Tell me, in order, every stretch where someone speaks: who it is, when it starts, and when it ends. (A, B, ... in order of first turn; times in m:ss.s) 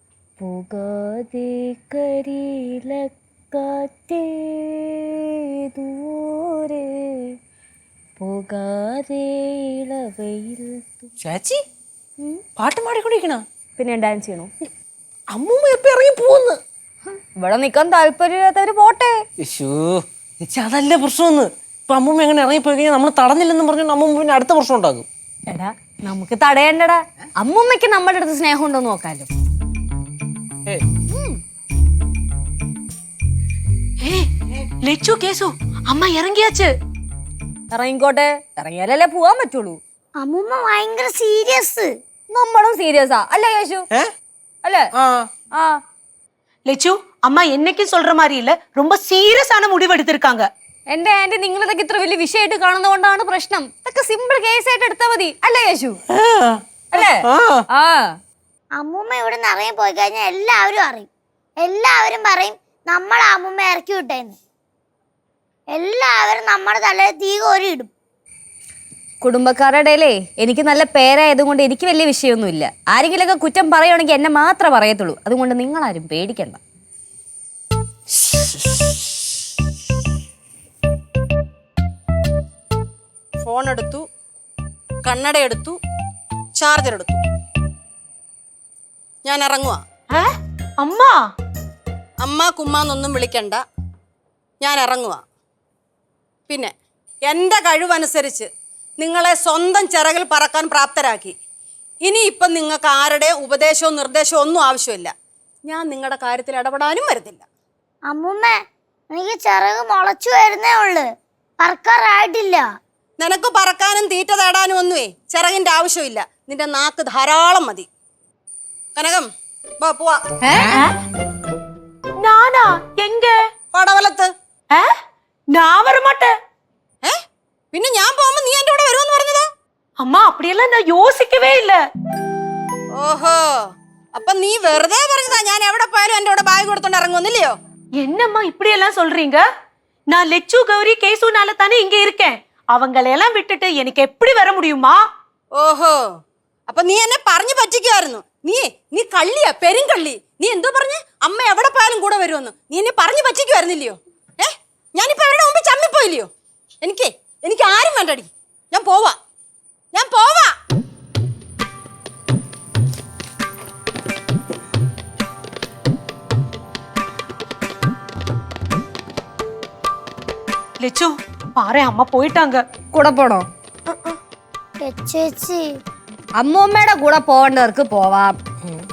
0:00.4-0:07.4 A
0:08.2-0:11.1 A
0:11.2-0:11.6 B
0:12.6-0:13.4 B
0:13.8-0:14.5 A
0:15.3-0:16.6 B
0:17.4-0:19.1 A
0:19.4-0:25.1 B
0:25.5-0:29.3 A
0:34.8-0:36.7 C
0:37.7-0:39.8 A
0:40.2-0:41.9 D
0:42.3-0:43.9 A
0:45.0-0:45.3 B
0:46.7-0:50.5 C
0:50.9-0:56.0 A
0:56.3-0:56.6 B
0:56.9-0:58.1 A
0:57.3-0:57.6 B
0:58.8-1:01.1 D
1:01.6-1:04.4 D
1:05.7-1:07.9 D
1:09.2-1:16.6 A
1:23.4-1:24.1 E
1:25.0-1:25.8 E
1:26.6-1:27.2 E
1:29.2-1:29.8 E
1:30.8-1:31.2 C
1:32.2-1:33.6 E
1:34.6-1:35.2 E
1:36.5-1:36.7 E
1:37.2-1:41.4 E
1:42.0-1:45.1 E
1:45.6-1:47.4 E
1:48.1-1:48.6 D
1:49.1-1:51.1 D
1:51.6-1:52.7 D
1:53.2-1:57.9 E
1:59.0-2:00.2 E
2:00.6-2:01.0 C
2:02.2-2:03.3 C
2:03.7-2:04.3 E
2:05.6-2:06.3 C
2:07.7-2:09.5 E
2:10.0-2:11.8 C
2:13.0-2:13.6 E
2:14.1-2:17.6 E
2:18.0-2:19.4 C
2:20.1-2:25.0 C
2:25.6-2:26.0 E
2:26.7-2:36.3 E
2:36.8-2:39.2 E
2:39.9-2:40.5 E
2:50.8-2:52.6 C
2:52.9-2:53.4 A
2:54.8-2:55.6 D
2:56.4-2:58.4 A